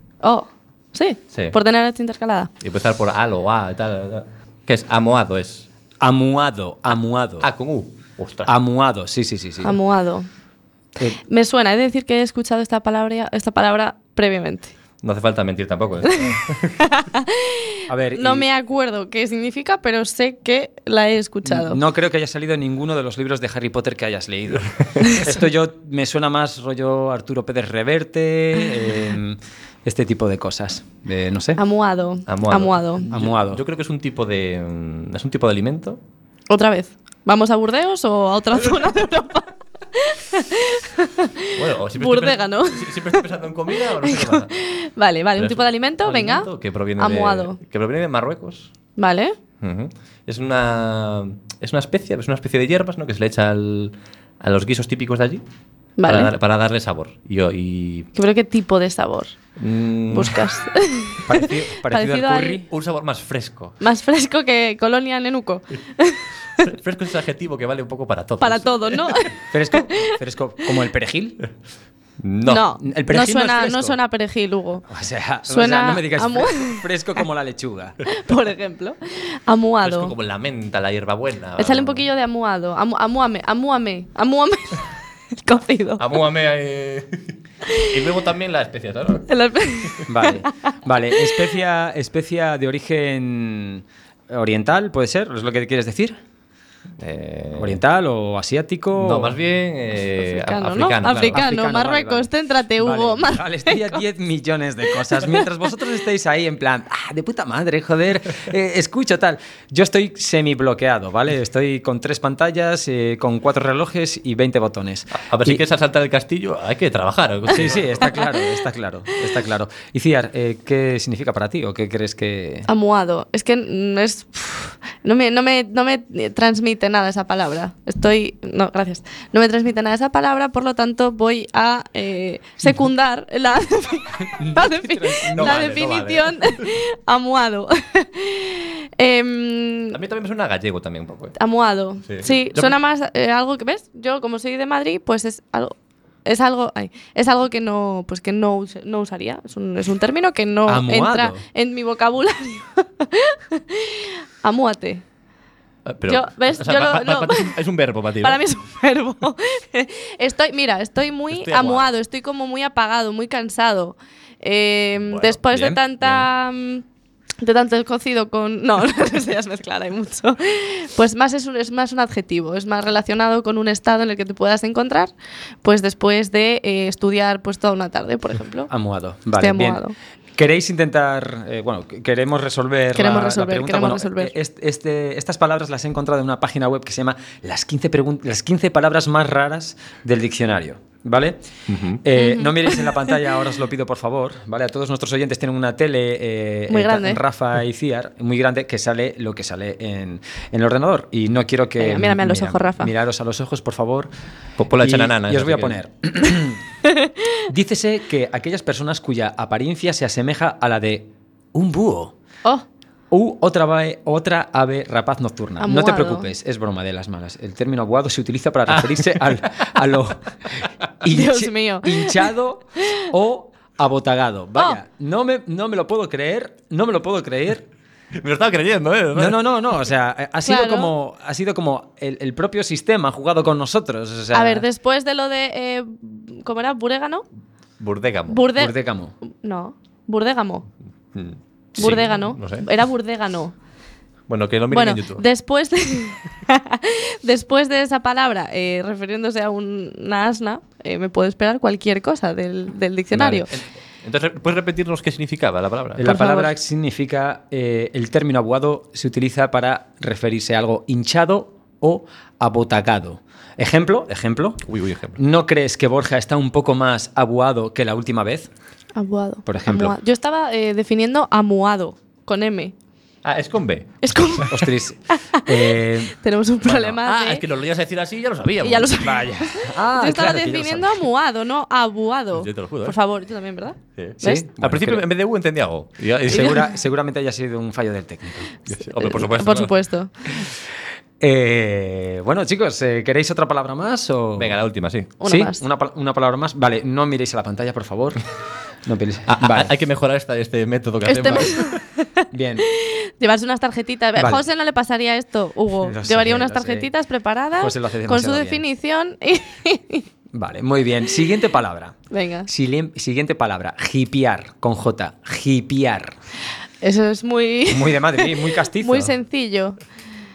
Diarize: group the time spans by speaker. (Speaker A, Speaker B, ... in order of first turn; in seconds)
Speaker A: 0.2-2.5, 9.6-10.3, 11.2-14.7, 16.8-21.8, 31.6-33.1, 36.5-43.2, 43.9-46.5, 47.0-47.6, 49.0-49.4, 56.0-56.3, 58.1-59.4, 60.1-62.6, 63.8-66.6, 68.4-70.1, 72.4-74.8, 75.5-76.8, 78.0-80.1, 81.6-86.0, 89.3-91.5, 100.2-104.0, 118.0-118.4, 122.7-140.0, 141.4-155.0, 156.1-157.6, 158.2-166.8, 167.4-175.1, 175.6-178.7, 179.4-179.9, 182.9-184.3, 192.2-192.9, 196.7-197.2, 201.8-202.9, 206.8-207.1, 215.6-216.3, 221.1-222.3, 230.4-230.9, 234.3-237.2, 238.3-240.7, 241.8-243.5, 244.7-253.5, 256.0-256.5, 268.9-272.7, 274.0-277.4, 278.6-284.4, 286.3-286.6, 289.0-290.1, 295.2-295.6, 301.1-310.1, 312.1-312.5, 316.8-319.8
Speaker B: 2.6-5.7, 7.4-8.5, 15.0-16.8, 32.3-36.0, 41.5-44.5, 45.4-48.7, 49.6-55.4, 56.0-58.1, 59.6-60.4, 62.7-63.8, 66.6-69.2, 72.2-72.7, 79.8-82.0, 86.0-89.3, 97.0-97.8, 99.0-101.5, 115.1-118.1, 135.3-136.7, 139.9-141.3, 142.1-142.7, 155.8-158.4, 161.3-161.9, 165.1-166.3, 191.7-192.0, 204.6-205.8, 218.7-219.7, 228.2-229.4, 237.8-238.4, 241.1-242.7, 244.3-245.2, 253.1-256.1, 264.6-265.2, 273.2-274.1, 276.6-279.1, 282.4-283.0, 284.0-286.7, 288.7-289.7, 294.4-295.1, 299.3-301.8
Speaker C: 6.0-7.5, 8.5-9.8, 17.9-18.5, 21.4-31.6, 33.1-33.6, 61.3-62.7, 69.5-71.4, 72.8-74.0, 74.9-78.0, 90.1-96.2, 97.6-99.4, 101.3-115.6, 117.5-122.7, 134.4-135.6, 150.7-151.4, 178.7-179.8, 180.3-191.4, 192.0-204.1, 204.7-206.6, 207.5-212.1, 213.1-227.7, 229.1-234.7, 238.5-239.1, 256.0-264.6, 265.2-268.5, 269.4-269.9, 274.5-276.1, 278.9-281.0, 284.2-285.0, 286.3-288.5, 291.2-294.6, 295.2-298.2, 298.8-299.7, 302.3-302.7, 305.8-306.9, 307.6-308.6, 310.3-316.2, 317.7-319.1